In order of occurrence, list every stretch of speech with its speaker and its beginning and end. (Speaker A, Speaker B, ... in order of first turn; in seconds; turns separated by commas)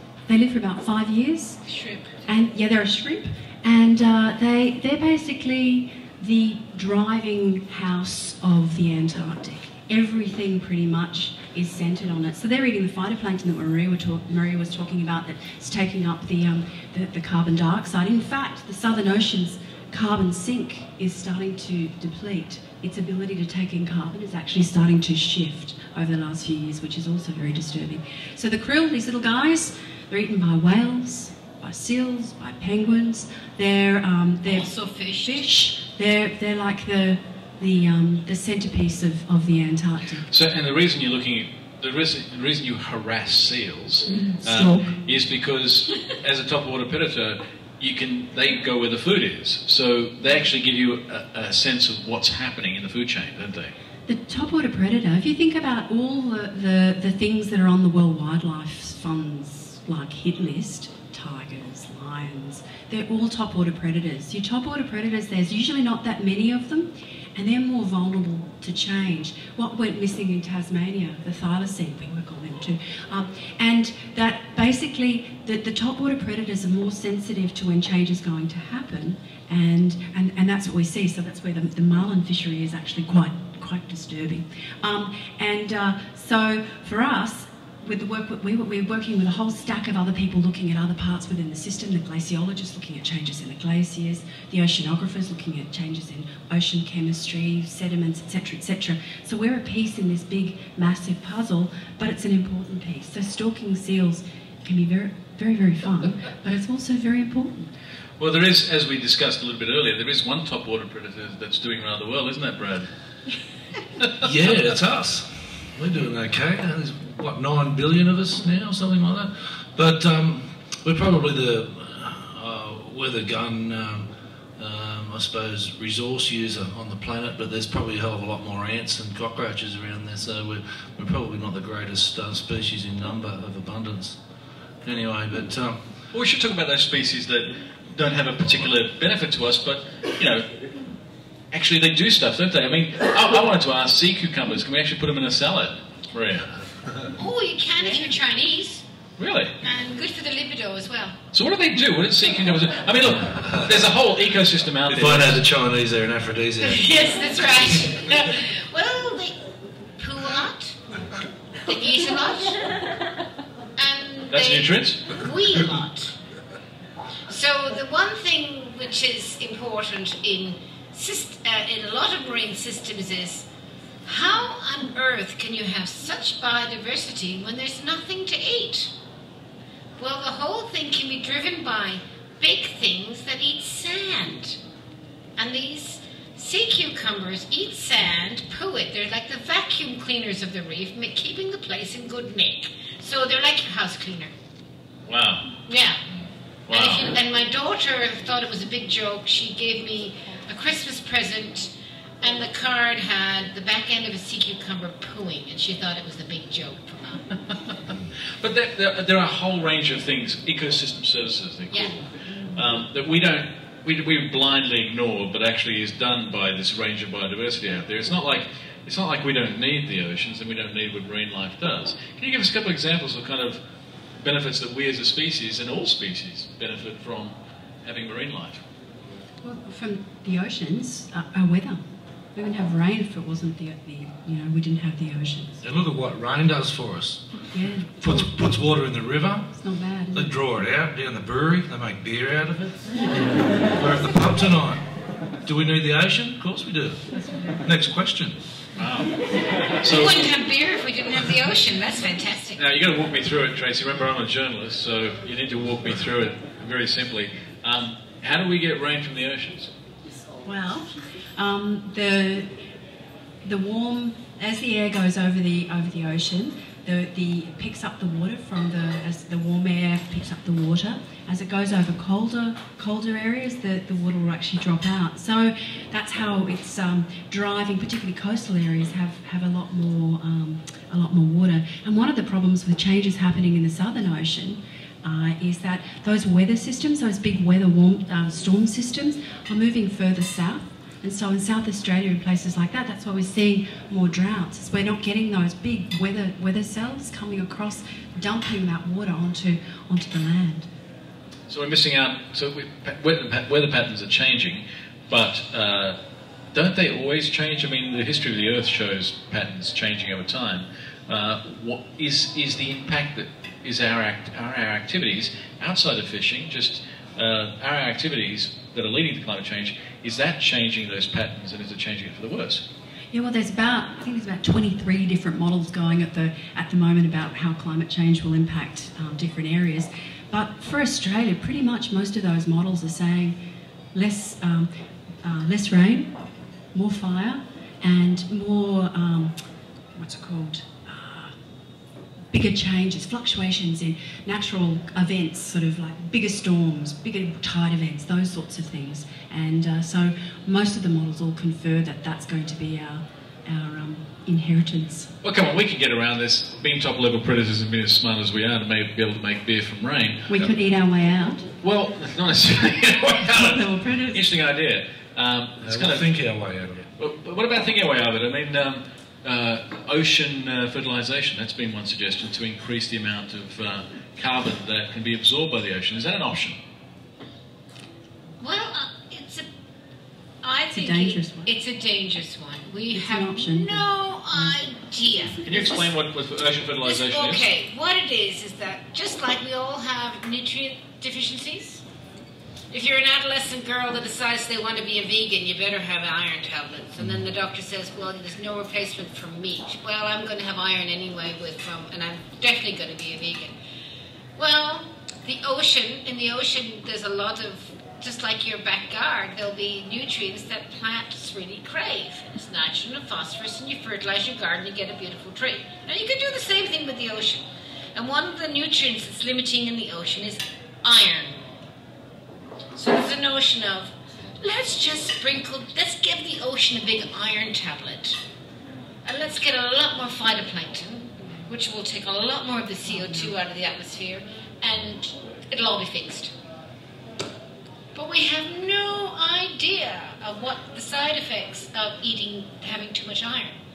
Speaker A: 0.3-1.6, Speaker B: 1.6-2.2, Speaker A: 2.3-34.7, Speaker B: 34.5-35.5, Speaker A: 35.2-40.3, Speaker C: 40.3-53.7, Speaker A: 44.1-44.9, Speaker A: 54.1-107.6, Speaker C: 108.2-112.9, Speaker D: 114.2-134.2, Speaker D: 134.8-135.8, Speaker C: 136.1-140.4, Speaker C: 141.5-146.5, Speaker B: 147.2-148.8, Speaker A: 147.8-148.1, Speaker C: 149.2-149.5, Speaker B: 149.6-151.2, Speaker C: 151.3-155.4, Speaker D: 154.9-157.1, Speaker B: 156.6-159.4, Speaker B: 160.0-160.8, Speaker B: 161.7-162.6, Speaker B: 163.8-166.2, Speaker C: 164.3-165.1, Speaker B: 167.3-173.5, Speaker B: 174.1-178.9, Speaker B: 180.0-184.6, Speaker B: 185.4-194.3, Speaker C: 195.1-195.5, Speaker B: 195.7-196.0, Speaker C: 196.7-197.1, Speaker B: 196.7-201.7, Speaker B: 202.2-207.2, Speaker C: 208.4-223.6, Speaker C: 224.2-228.6, Speaker A: 229.4-231.8, Speaker A: 232.3-235.6, Speaker D: 235.6-237.4, Speaker A: 237.5-238.3, Speaker D: 238.0-239.5, Speaker A: 239.6-240.3, Speaker D: 240.1-244.8, Speaker D: 245.4-247.1, Speaker A: 247.2-247.6, Speaker D: 247.6-248.4, Speaker C: 248.8-249.1, Speaker C: 249.7-250.3, Speaker B: 249.8-252.6, Speaker C: 252.6-259.7, Speaker A: 260.4-262.6, Speaker A: 263.4-300.7, Speaker C: 301.5-306.0, Speaker C: 306.5-322.6, Speaker A: 323.1-333.4, Speaker A: 333.9-334.7, Speaker A: 335.2-336.1, Speaker A: 336.7-339.4, Speaker A: 339.9-341.3, Speaker A: 342.3-355.1, Speaker C: 355.2-360.5, Speaker A: 360.3-361.4, Speaker C: 361.6-366.1, Speaker A: 363.3-364.2, Speaker D: 365.6-366.8, Speaker C: 367.0-376.6, Speaker B: 378.4-379.5, Speaker B: 380.4-385.9, Speaker A: 380.7-381.5, Speaker A: 382.9-384.5, Speaker C: 385.4-387.4, Speaker B: 386.8-391.8, Speaker B: 392.7-403.5, Speaker B: 404.4-417.4, Speaker B: 417.9-421.4, Speaker B: 422.8-428.2, Speaker B: 429.1-436.3, Speaker A: 433.0-433.3, Speaker B: 437.9-443.6